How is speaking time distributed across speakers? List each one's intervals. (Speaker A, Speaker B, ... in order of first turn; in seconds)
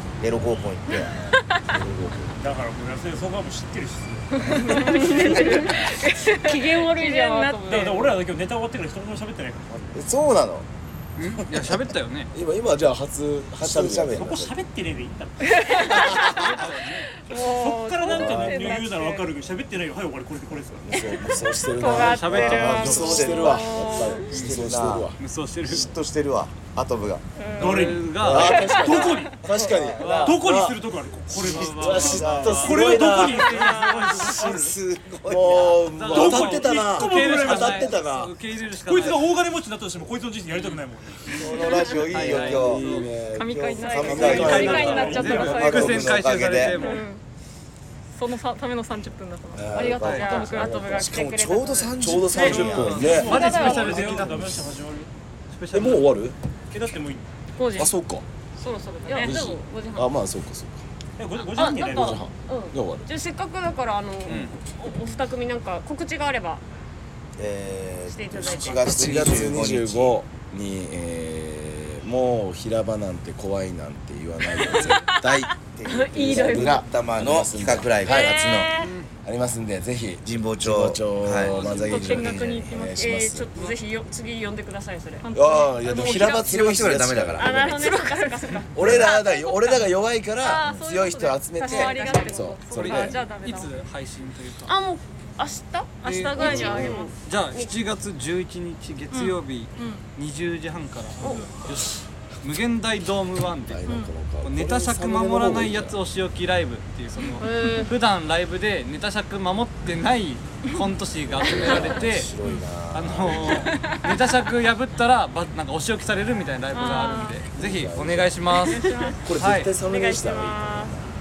Speaker A: 0.2-1.2, 9.8-10.7, 13.6-14.5, 16.0-16.5, 22.3-25.1, 25.7-27.2, 29.4-30.4, 31.4-36.6, 41.4-46.8, 49.6-53.2, 67.4-70.2, 75.2-78.8, 80.2-82.9, 86.0-87.9, 88.8-89.8, 112.2-113.7
Speaker B: 1.6-2.5, 12.3-14.6, 18.1-18.7, 20.7-26.0, 28.1-30.8, 31.4-33.6, 35.2-38.4, 42.1-46.4, 49.5-53.6, 54.2-54.6, 55.7-56.4, 57.8-58.2, 59.2-60.9, 61.8-63.1, 68.8-75.5, 76.1-78.3, 79.2-83.7, 85.3-88.0, 88.7-93.2, 103.7-106.0, 111.3-113.7, 117.5-118.4, 119.2-121.0
Speaker C: 2.4-5.7, 7.7-9.7, 14.1-16.0, 17.3-21.0, 27.6-29.4, 30.0-34.8, 36.1-38.0, 38.8-41.9, 44.2-45.9, 52.3-55.1, 56.7-57.2, 61.2-62.2, 68.5-69.1
Speaker D: 4.4-7.7, 15.4-16.5, 17.3-19.3, 21.3-24.2, 27.4-27.7, 28.5-28.9, 41.5-42.0, 43.3-45.9, 46.7-47.2, 48.1-51.8, 53.2-54.2, 58.6-59.4, 81.5-83.1, 85.2-86.5, 87.8-88.7, 90.4-93.9, 96.0-97.1, 99.1-100.0, 101.2-101.5, 103.9-104.1, 107.2-107.9, 113.7-114.2, 116.7-117.4, 118.6-119.2
Speaker E: 4.5-8.2, 17.3-18.9, 21.7-24.3, 43.8-44.2, 46.8-47.1, 50.2-52.0, 57.6-57.9, 59.1-60.1, 61.5-66.6, 68.1-68.9, 74.6-75.2, 75.8-76.9, 78.0-78.9, 82.9-85.3, 87.4-89.0, 91.6-93.1, 94.7-97.8, 101.2-101.5, 107.4-107.9, 111.6-111.9, 118.8-119.2, 119.8-120.9
Speaker F: 11.2-12.3, 16.0-17.2, 22.0-23.4, 24.3-24.6, 25.2-25.9, 27.6-29.1, 30.0-30.8, 31.4-34.6, 35.8-39.3, 40.5-40.8, 42.1-43.1, 44.3-47.1, 50.0-50.4, 52.5-54.5, 55.5-56.1, 64.3-64.6, 78.8-79.1, 92.8-94.7, 96.0-103.8, 104.4-112.3, 112.9-118.8, 119.4-119.7